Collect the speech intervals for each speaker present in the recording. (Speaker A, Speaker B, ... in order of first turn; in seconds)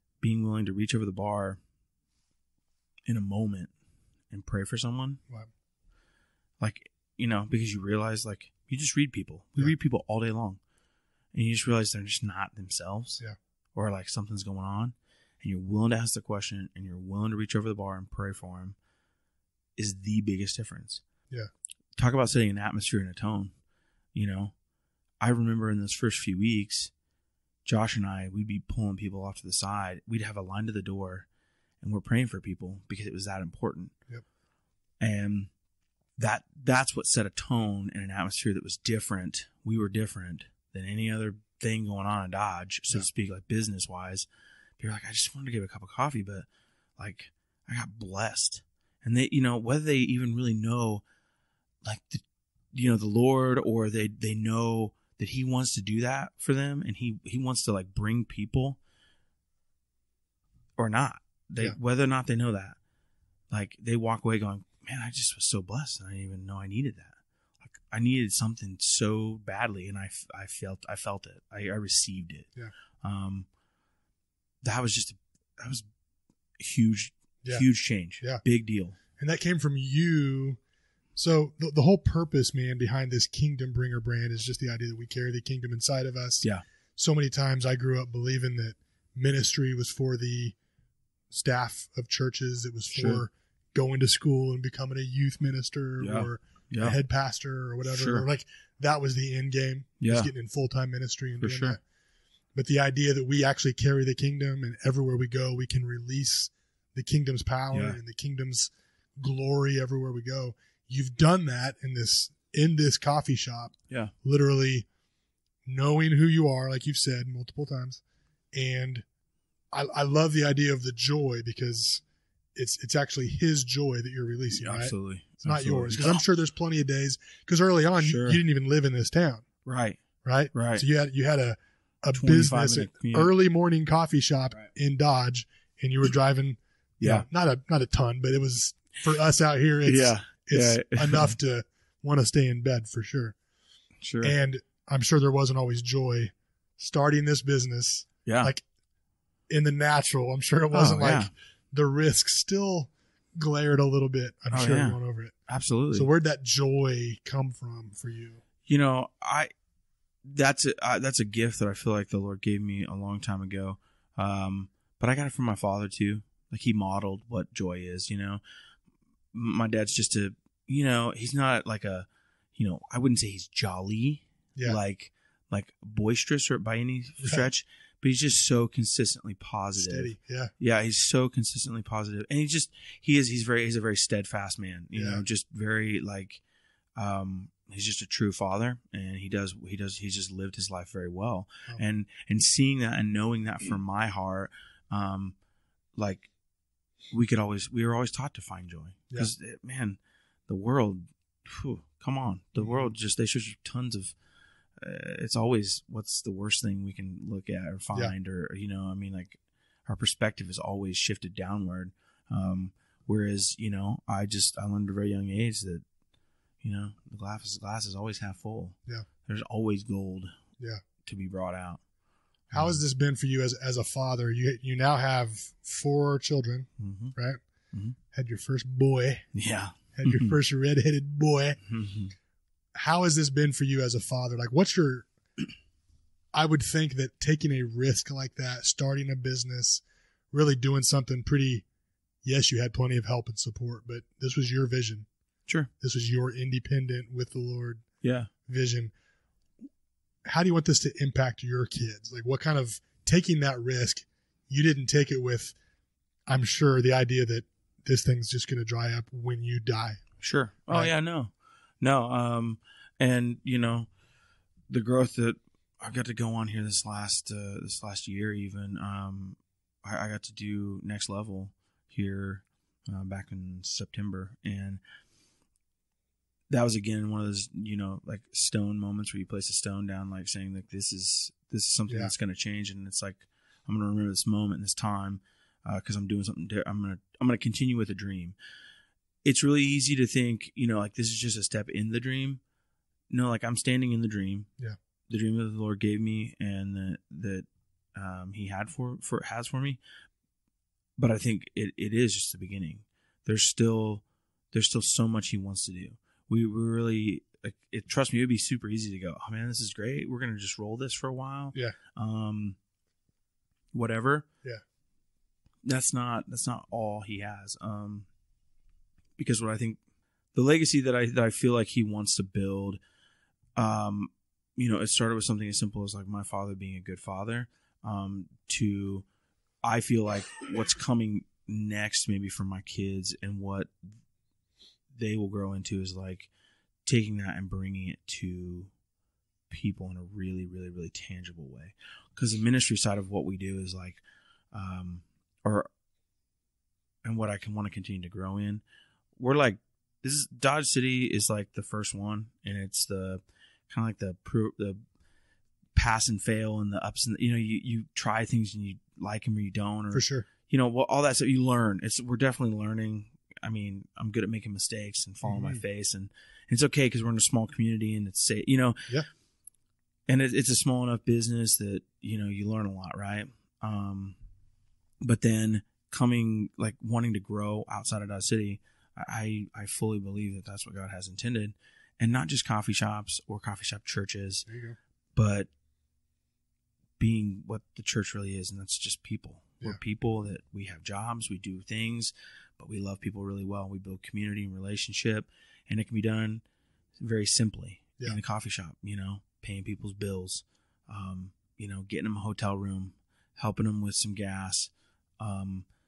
Speaker A: 0.2-1.6, 3.1-3.7, 4.3-5.2, 6.6-10.6, 11.3-13.2, 13.8-18.8, 19.8-21.0, 22.0-23.5, 24.1-24.5, 25.2-26.9, 27.6-31.3, 31.8-33.9, 35.0-35.5, 36.2-44.3, 44.8-46.5, 47.0-51.0, 51.8-58.8, 60.8-62.8, 63.5-72.5, 73.0-73.5, 74.6-75.9, 76.6-79.0, 93.0-93.2, 96.0-97.0, 97.9-98.3, 100.0-100.3, 101.4-101.8, 107.7-108.0, 124.5-126.2, 128.0-128.4, 129.7-130.0, 130.5-130.8, 132.1-133.3, 137.0-137.2, 139.8-141.3, 144.0-144.4, 148.3-148.5, 150.7-151.3, 154.5-155.0, 155.5-156.1, 158.7-159.5, 160.2-168.4, 169.3-186.4, 187.0-195.3, 195.9-196.3, 197.1-204.2, 204.8-215.8, 216.6-220.3, 221.0-221.8, 222.5-222.8, 226.8-227.1, 229.3-230.3, 231.6-232.1, 248.0-248.3, 260.2-263.9, 264.7-274.8, 276.5-288.4, 289.2-292.4, 293.1-294.5, 295.1-299.8, 301.0-312.6, 313.7-314.3, 315.6-318.1, 319.2-319.8, 320.3-322.8, 323.6-329.1, 329.6-333.9, 334.9-336.3, 336.9-338.7, 339.5-344.0, 344.5-345.7, 347.0-348.6, 349.2-354.8, 355.8-368.9, 370.1-374.2, 375.0-384.5, 385.1-385.5, 387.0-396.4, 397.0-405.7
Speaker B: 79.2-80.6, 81.2-90.5, 91.3-101.8, 102.5-114.9, 115.7-118.0, 118.5-119.0, 119.7-122.0, 122.5-129.4, 130.2-143.4, 144.2-148.6, 149.5-155.3, 155.9-158.4, 179.8-180.5, 184.9-185.2, 222.5-227.4, 228.1-229.2, 230.0-231.6, 232.8-235.1, 236.3-241.7, 242.2-245.1, 245.8-247.8, 248.5-248.9, 250.2-255.6, 256.3-260.0, 281.9-282.1, 359.9-360.3, 365.2-365.6, 384.5-384.8